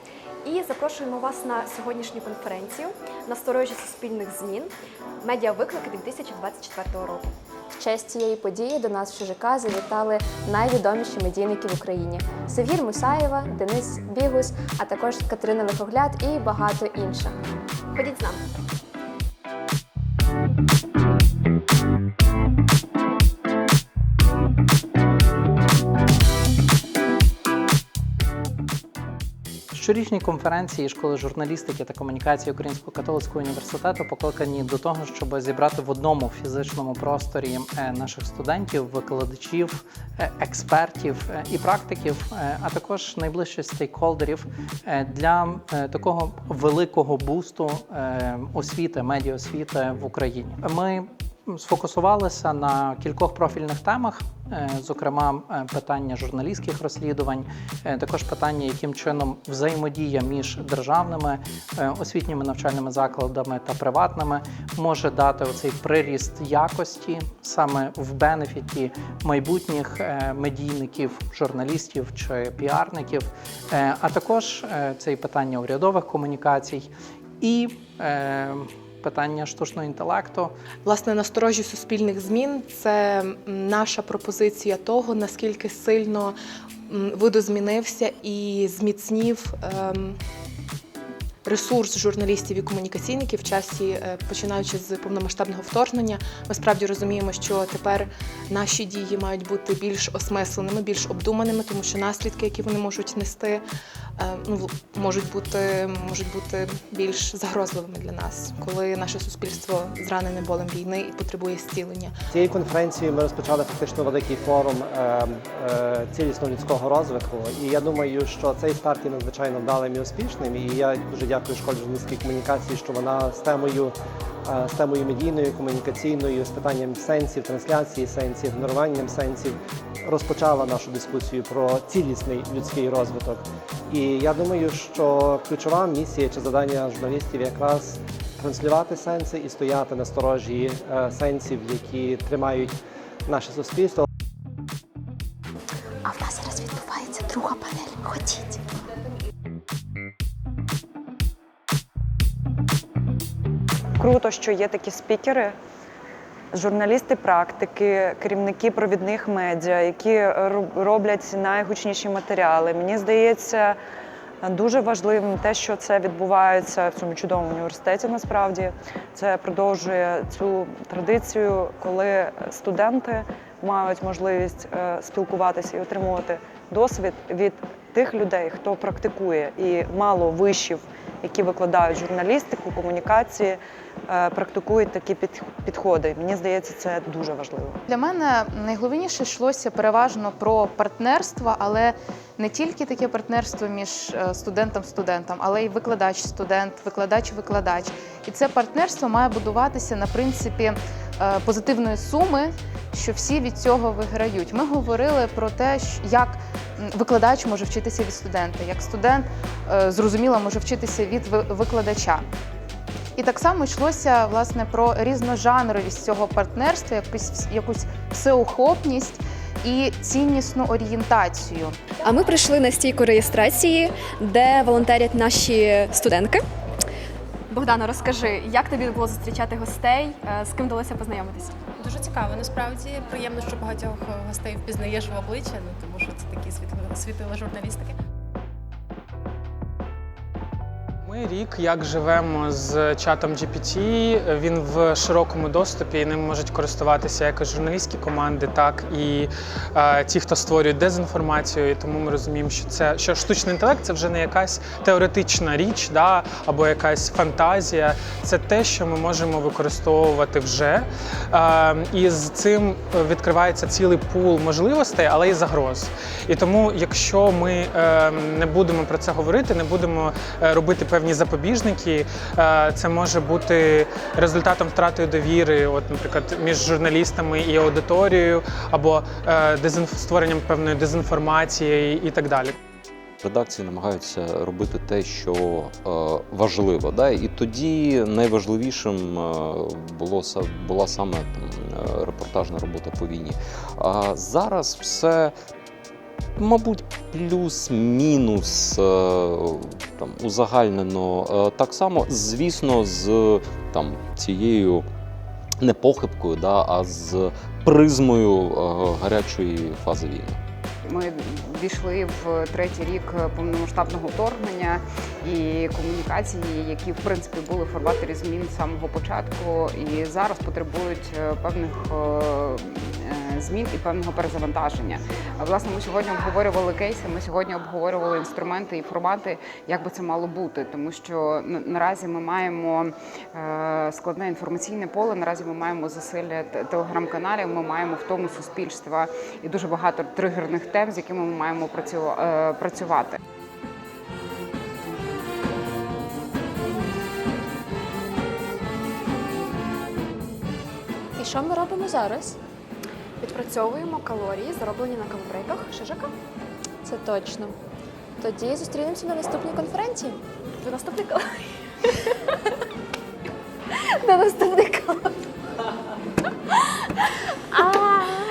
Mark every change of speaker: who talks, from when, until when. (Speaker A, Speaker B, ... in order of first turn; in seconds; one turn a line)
Speaker A: 0.4-7.3
Speaker B: 7.7-17.4
Speaker A: 18.0-18.4
Speaker C: 29.7-80.5
Speaker D: 80.8-86.3
Speaker D: 86.9-90.2
Speaker D: 91.4-103.6
Speaker D: 104.2-112.1
Speaker E: 112.3-123.9
Speaker E: 124.5-142.8
Speaker E: 143.3-144.1
Speaker B: 146.1-148.6
Speaker F: 154.0-155.6
Speaker F: 156.5-163.8
Speaker F: 164.4-187.8
Speaker G: 187.9-212.2
Speaker G: 213.2-221.8
Speaker A: 222.0-226.4
Speaker A: 227.5-231.6
Speaker H: 231.8-237.9
Speaker I: 241.1-282.5
Speaker J: 283.2-295.3
Speaker J: 296.4-304.9
Speaker J: 305.6-310.4
Speaker K: 310.8-343.2
Speaker B: 351.2-352.3
Speaker A: 353.2-356.1
Speaker B: 356.9-357.5
Speaker B: 358.2-360.2
Speaker A: 360.6-361.4
Speaker B: 364.0-365.1
Speaker B: 367.6-368.2